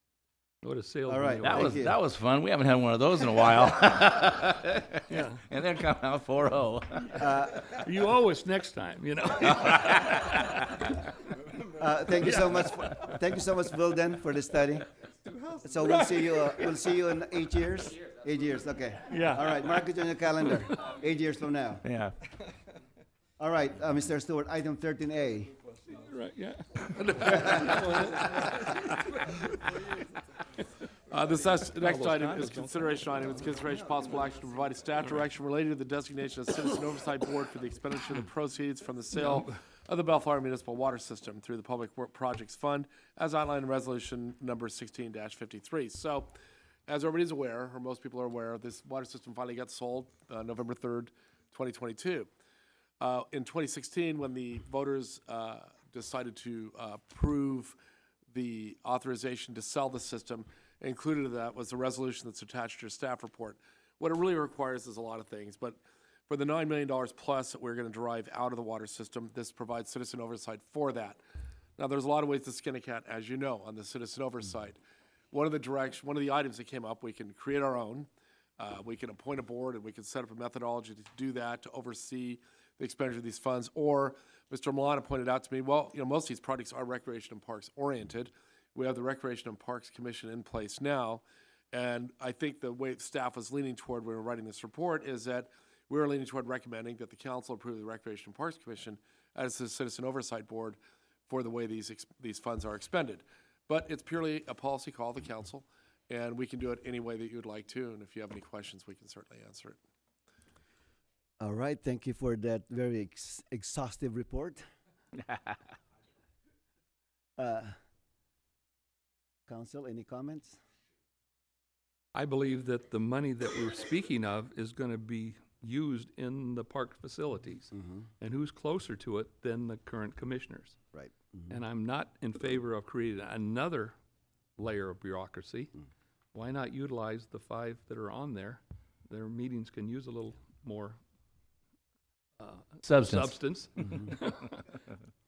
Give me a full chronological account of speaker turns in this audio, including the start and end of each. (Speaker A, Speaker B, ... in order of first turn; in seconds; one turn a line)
Speaker A: 0.6-1.8
Speaker B: 1.1-2.0
Speaker C: 1.4-7.2
Speaker A: 5.1-5.4
Speaker B: 7.2-7.7
Speaker A: 7.6-10.2
Speaker B: 11.8-14.9
Speaker B: 15.6-21.8
Speaker A: 19.1-19.5
Speaker C: 21.8-22.1
Speaker B: 23.4-25.5
Speaker A: 26.1-28.1
Speaker D: 27.0-28.9
Speaker D: 31.1-46.3
Speaker C: 32.0-32.7
Speaker A: 39.1-39.5
Speaker D: 46.9-52.3
Speaker D: 53.0-57.8
Speaker D: 58.3-71.2
Speaker D: 71.8-74.8
Speaker D: 75.3-109.8
Speaker B: 111.4-114.6
Speaker B: 117.4-117.7
Speaker B: 119.5-120.6
Speaker A: 122.1-130.8
Speaker B: 127.7-128.1
Speaker B: 130.9-131.6
Speaker A: 131.5-134.0
Speaker A: 134.6-135.8
Speaker A: 136.3-141.0
Speaker A: 142.4-144.7
Speaker C: 142.8-143.4